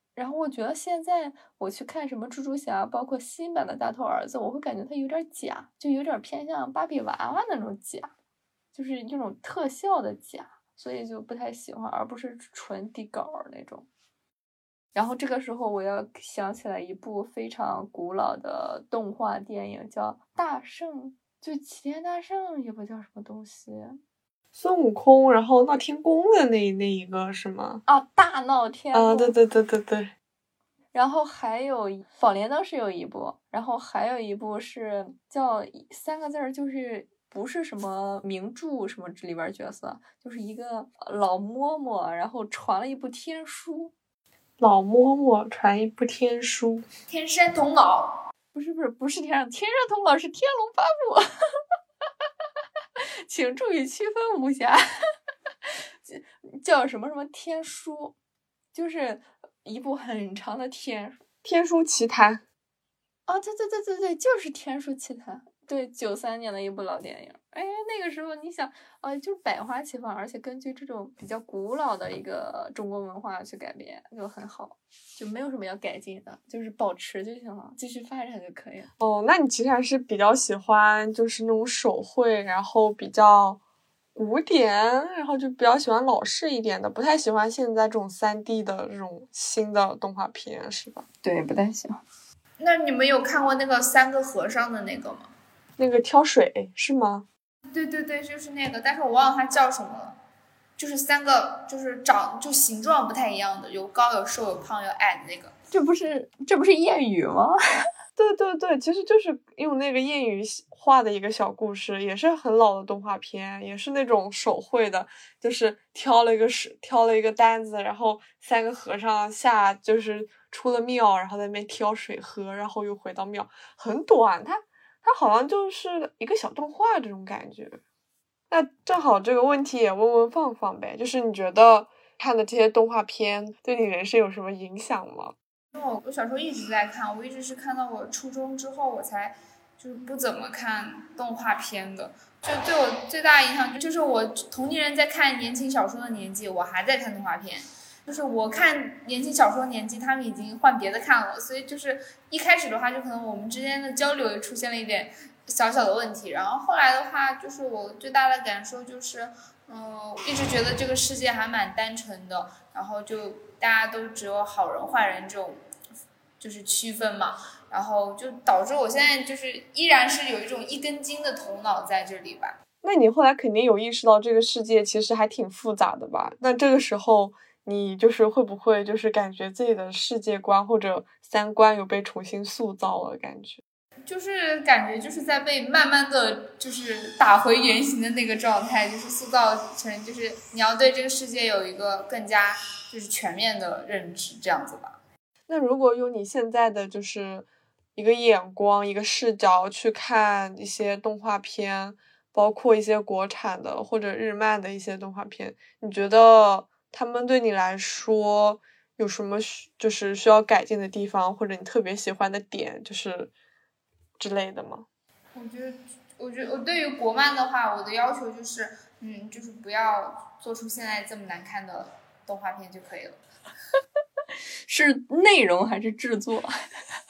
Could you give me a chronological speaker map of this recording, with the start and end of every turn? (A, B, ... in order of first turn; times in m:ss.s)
0:00.2-0:08.1 A
0:08.7-0:13.9 A
0:15.0-0:24.0 A
0:24.5-0:27.8 B
0:27.9-0:29.4 A
0:28.9-0:30.1 B
0:30.9-0:43.9 A
0:44.6-0:46.9 B
0:47.1-0:48.2 C
0:48.6-0:51.3 A
0:53.3-0:54.8 A
0:55.6-0:58.2 A
0:58.7-1:01.2 A
1:01.4-1:02.4 B
1:03.3-1:18.9 A
1:19.0-1:23.6 B
1:24.2-1:31.0 B
1:31.2-1:32.0 A
1:32.6-1:35.3 C
1:35.8-1:37.3 B
1:37.7-1:40.2 C
1:40.8-1:45.6 C
1:45.7-1:47.6 A
1:48.2-2:07.8 B
2:08.5-2:15.4 B
2:15.7-2:45.6 C
2:46.4-2:52.6 C
2:52.8-3:03.6 B
3:04.1-3:15.0 C
3:15.5-3:33.3 B
3:34.2-3:34.9 B
3:35.4-3:43.2 C
3:44.7-3:46.5 A